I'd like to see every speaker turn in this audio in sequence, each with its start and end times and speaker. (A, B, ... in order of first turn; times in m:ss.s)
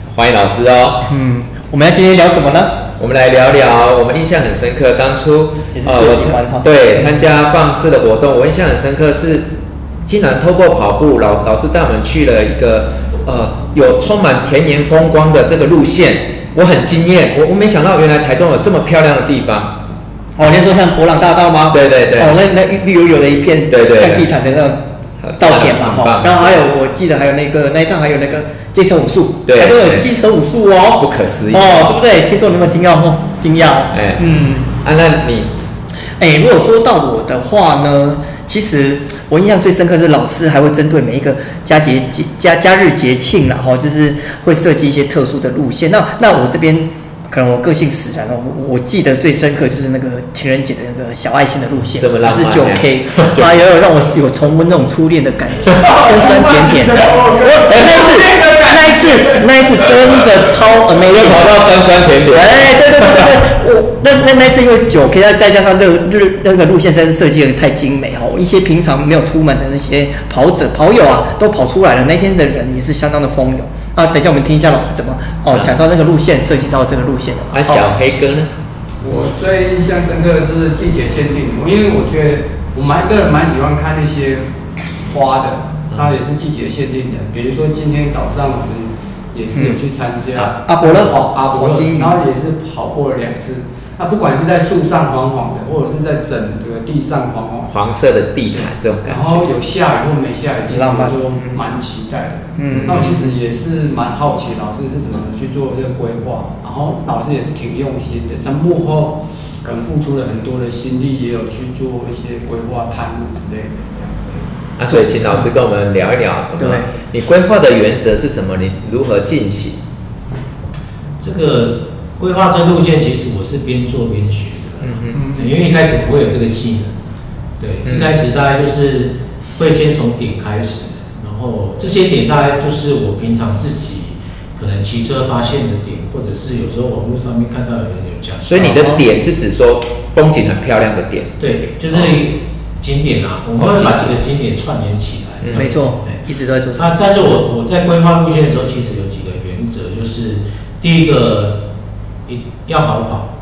0:00.1-0:01.0 A
0:01.0-0:02.8 B
0:03.0-0:09.5 A
0:05.7-0:07.3 B
0:10.0-0:19.8 A
0:20.4-0:24.8 B
0:21.7-0:22.4 A
0:23.7-0:24.3 A
0:25.2-0:26.6 A
0:25.4-0:34.7 B
0:29.4-0:30.1 A
0:31.0-0:32.0 A
0:33.9-0:34.2 A
0:34.8-0:35.5 A
0:36.2-1:01.6 B
0:52.0-0:53.5 A
1:01.1-1:03.3 A
1:02.3-1:17.9 B
1:15.5-1:15.8 A
1:17.5-1:18.5 A
1:19.0-1:24.5 C
1:25.0-1:37.7 C
1:29.5-1:29.8 B
1:30.6-1:32.2 B
1:37.7-1:39.4 A
1:39.0-1:54.4 C
1:40.7-1:41.6 B
1:42.6-1:43.2 B
1:42.7-1:43.2 A
1:54.8-1:59.8 A
1:56.6-1:56.9 B
2:01.2-2:06.9 D
2:04.8-2:05.2 A
2:05.2-2:05.4 B
2:07.6-2:18.8 D
2:07.8-2:08.2 A
2:18.4-2:21.3 A
2:18.6-2:19.0 B
2:21.4-2:26.2 D
2:21.9-2:22.2 A
2:23.6-2:24.1 A
2:25.4-2:25.7 A
2:25.5-2:27.0 B
2:26.8-2:31.6 D
2:32.3-2:33.3 D